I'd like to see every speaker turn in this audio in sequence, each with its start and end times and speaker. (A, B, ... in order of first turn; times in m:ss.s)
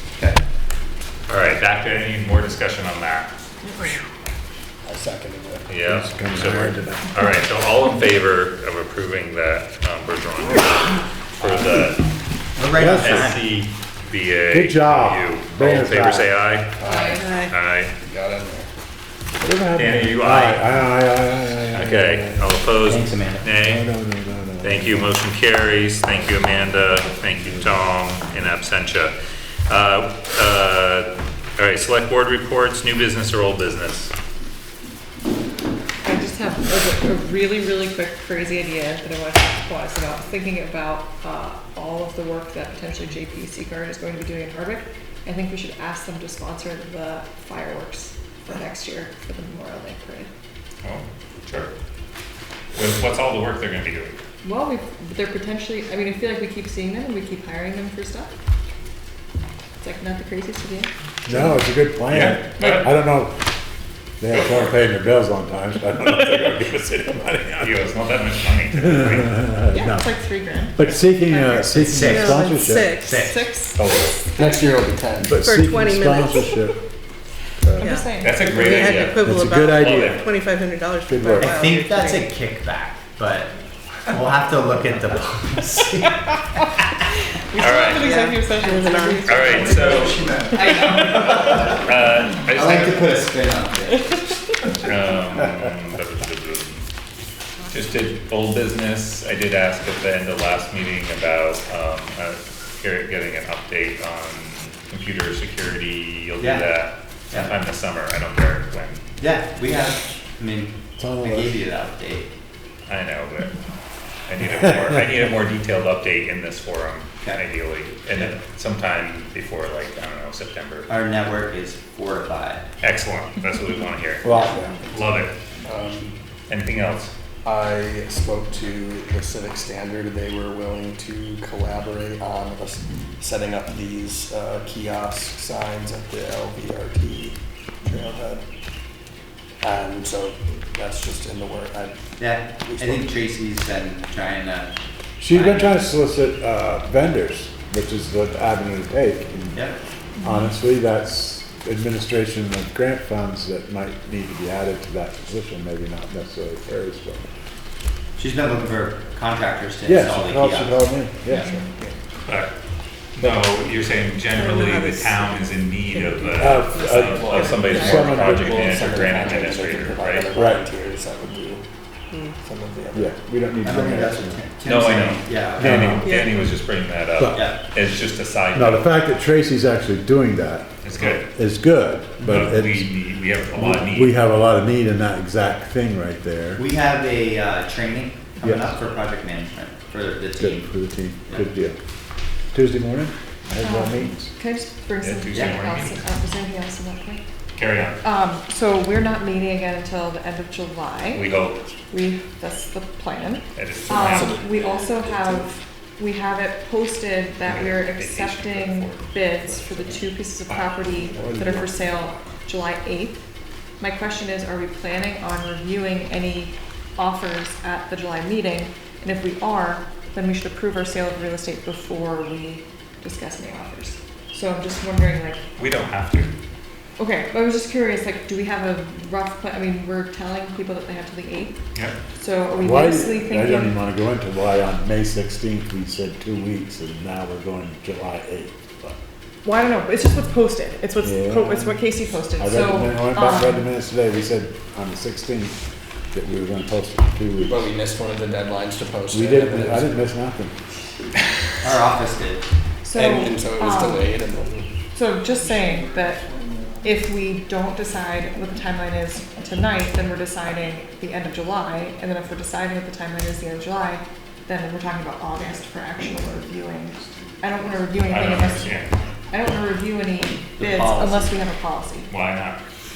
0:01.3-0:03.3 A
0:04.8-0:05.8 B
0:05.7-0:12.1 A
0:05.8-0:07.1 C
0:12.6-0:13.4 D
0:12.7-0:13.3 C
0:12.7-0:16.7 A
0:14.5-0:16.3 C
0:16.8-0:17.5 B
0:16.8-0:17.3 E
0:17.1-0:17.5 F
0:17.5-0:17.9 A
0:18.0-0:18.7 B
0:19.4-0:22.5 C
0:19.7-0:20.7 A
0:21.7-0:23.8 A
0:22.8-0:23.5 D
0:23.4-0:25.2 C
0:24.6-0:29.1 A
0:29.7-0:34.1 A
0:36.0-0:50.3 E
0:50.8-0:51.7 A
0:52.7-0:54.2 A
0:54.4-0:58.3 E
0:59.8-1:00.9 E
1:01.3-1:03.4 C
1:02.1-1:02.9 A
1:02.6-1:02.9 E
1:04.2-1:07.9 C
1:07.6-1:09.6 A
1:08.7-1:10.1 C
1:09.7-1:11.9 E
1:10.7-1:13.0 C
1:11.7-1:13.5 D
1:12.0-1:13.2 F
1:13.2-1:14.6 E
1:13.7-1:14.2 A
1:14.3-1:15.5 B
1:15.2-1:16.8 C
1:15.4-1:16.6 F
1:17.8-1:18.6 E
1:17.8-1:22.3 F
1:18.2-1:20.4 A
1:19.2-1:20.3 C
1:21.1-1:21.7 C
1:21.4-1:23.5 D
1:24.1-1:26.5 D
1:27.5-1:30.1 E
1:27.6-1:28.1 A
1:28.0-1:29.7 F
1:29.2-1:30.2 A
1:29.5-1:34.1 D
1:31.3-1:33.2 A
1:34.8-1:36.8 A
1:37.7-1:49.0 A
1:46.4-1:46.7 D
1:49.2-1:52.3 D
1:51.0-1:51.6 C
1:52.9-1:53.6 A
1:54.3-2:00.9 A
2:00.9-2:02.6 D
2:02.8-2:05.3 A
2:04.2-2:04.8 C
2:04.2-2:04.8 D
2:05.6-2:06.2 B
2:06.5-2:07.1 A
2:07.4-2:18.4 B
2:19.6-2:23.2 B
2:22.2-2:24.7 D
2:25.2-2:29.6 C
2:25.3-2:25.8 D
2:30.2-2:37.2 C
2:38.2-2:40.8 D
2:39.8-2:41.6 C
2:41.3-2:42.0 B
2:42.2-2:42.5 A
2:43.1-2:50.3 A
2:44.3-2:48.3 F
2:46.3-2:48.9 C
2:46.8-2:51.6 B
2:50.4-2:50.6 C
2:52.4-2:53.1 B
2:52.9-2:54.4 C
2:53.6-2:55.9 D
2:54.6-2:58.9 A
2:55.6-2:56.4 C
2:56.0-2:56.3 F
2:57.2-2:57.5 C
2:57.3-2:57.6 D
2:58.5-3:06.6 C
3:00.8-3:01.3 A
3:02.2-3:04.2 A
3:06.6-3:10.7 D
3:08.4-3:08.8 C
3:10.4-3:11.8 C
3:12.5-3:14.3 C
3:13.6-3:17.2 E
3:15.0-3:16.0 A
3:17.6-3:18.0 A
3:18.0-3:21.3 E
3:21.1-3:21.6 A
3:21.9-3:33.2 E
3:23.5-3:24.4 A
3:23.8-3:25.5 B
3:27.5-3:29.1 A
3:29.5-3:29.9 B
3:30.9-3:31.8 B
3:33.8-3:45.4 E
3:45.6-3:46.3 A
3:47.0-3:51.6 E
3:52.2-3:53.8 E
3:52.6-3:59.0 C
3:59.4-4:03.7 E
4:01.0-4:01.8 C
4:02.4-4:05.5 C
4:06.1-4:07.7 C
4:07.4-4:10.0 B
4:09.1-4:10.6 C
4:11.6-4:12.4 D
4:12.8-4:14.2 E
4:12.9-4:14.8 B
4:14.9-4:16.2 E
4:16.8-4:32.1 E
4:28.1-4:28.9 A
4:30.6-4:31.3 D
4:32.1-4:32.6 A